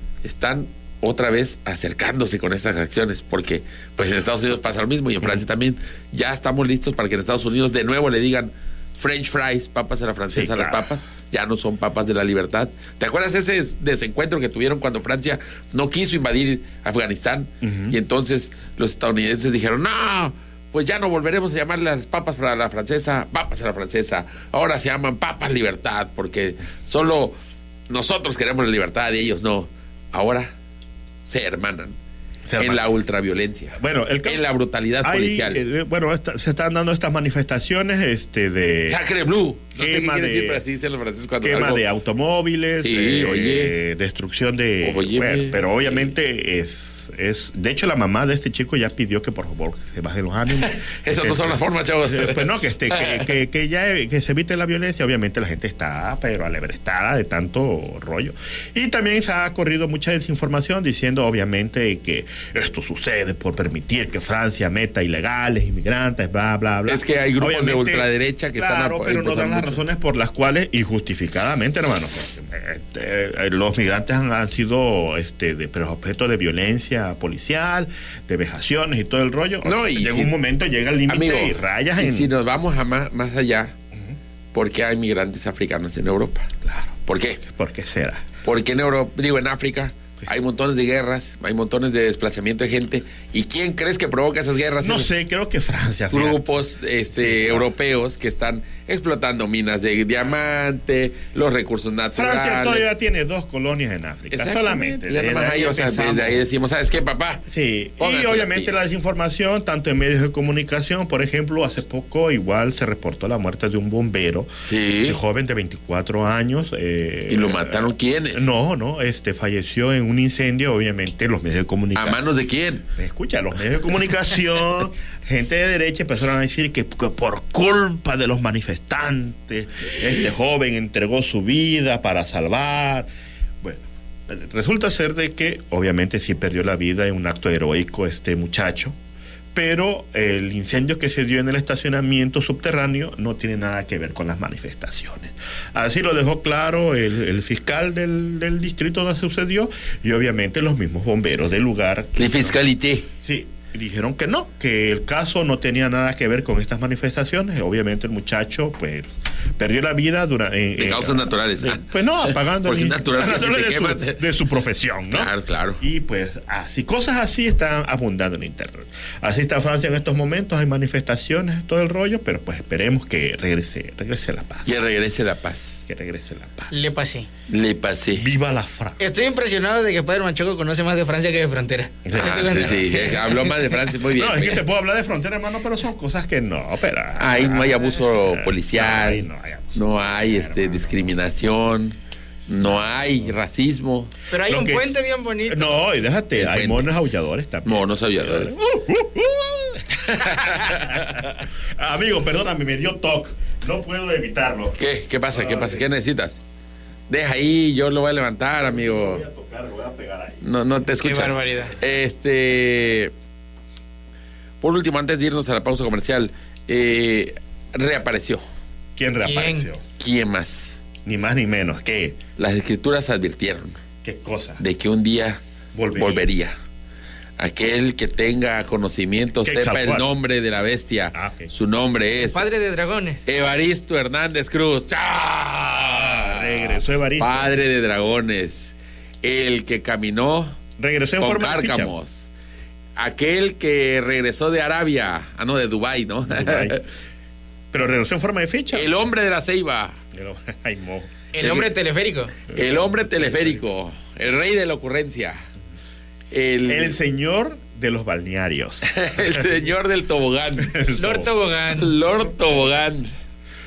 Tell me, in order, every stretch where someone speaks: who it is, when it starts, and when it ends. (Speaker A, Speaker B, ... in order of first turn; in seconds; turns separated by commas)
Speaker A: 0.2-27.4, Speaker B: 10.3-10.9, Speaker B: 17.6-18.0, Speaker A: 27.9-30.5, Speaker A: 31.2-32.0, Speaker B: 32.5-32.8, Speaker A: 32.6-35.6, Speaker B: 33.8-34.4, Speaker B: 35.0-39.0, Speaker A: 38.9-41.8, Speaker B: 39.8-40.6, Speaker B: 41.4-82.3, Speaker A: 42.8-43.7, Speaker A: 44.8-46.1, Speaker A: 50.6-53.3, Speaker A: 66.9-69.8, Speaker A: 79.7-80.3, Speaker A: 81.1-83.8, Speaker A: 84.5-86.5, Speaker B: 86.6-88.3, Speaker A: 87.1-87.4, Speaker A: 88.4-95.1, Speaker B: 94.8-96.4, Speaker A: 96.1-102.8, Speaker B: 97.2-97.7, Speaker B: 102.2-106.5, Speaker A: 104.3-107.4, Speaker B: 107.5-114.5, Speaker A: 108.0-108.9, Speaker A: 114.7-115.2, Speaker B: 115.0-122.2, Speaker A: 117.3-118.5, Speaker A: 122.0-122.8, Speaker B: 123.0-133.1, Speaker B: 133.6-139.0, Speaker B: 139.5-152.6, Speaker A: 152.2-153.1, Speaker B: 153.2-174.9, Speaker A: 160.8-164.2, Speaker A: 165.1-165.8, Speaker A: 174.7-175.8, Speaker B: 175.9-176.7, Speaker C: 176.7-177.3, Speaker A: 177.5-178.3, Speaker B: 178.1-179.2, Speaker C: 179.0-183.7, Speaker B: 182.1-183.2, Speaker A: 182.2-184.6, Speaker B: 184.1-191.2, Speaker A: 187.2-191.9, Speaker A: 192.5-194.1, Speaker B: 192.7-193.3, Speaker C: 194.3-195.8, Speaker B: 194.4-204.8, Speaker A: 196.4-196.9, Speaker A: 197.7-198.6, Speaker A: 200.2-201.4, Speaker A: 204.8-206.4, Speaker B: 205.3-205.9, Speaker A: 207.1-209.2, Speaker B: 208.6-210.4, Speaker A: 210.4-213.1, Speaker C: 211.0-211.7, Speaker A: 214.6-218.4, Speaker B: 219.0-219.8, Speaker C: 219.2-219.7, Speaker A: 220.0-220.8, Speaker B: 221.0-222.2, Speaker A: 222.4-223.8, Speaker B: 224.0-224.6, Speaker A: 224.6-225.4, Speaker B: 225.7-226.3, Speaker A: 226.0-226.6, Speaker A: 227.4-232.4, Speaker B: 229.4-230.1, Speaker B: 231.1-231.5, Speaker C: 232.2-233.2, Speaker A: 233.3-240.6, Speaker B: 235.7-237.6, Speaker B: 240.8-241.9, Speaker A: 241.2-242.3, Speaker A: 243.0-246.9, Speaker B: 246.2-246.8, Speaker B: 247.7-248.9, Speaker A: 248.7-250.0, Speaker B: 250.1-251.1, Speaker C: 251.3-252.3, Speaker A: 251.4-251.7, Speaker B: 252.5-253.6, Speaker A: 252.5-255.4, Speaker A: 256.3-257.0, Speaker B: 256.7-259.5, Speaker A: 258.9-260.8, Speaker B: 260.6-261.3, Speaker C: 261.0-262.0, Speaker A: 261.8-263.1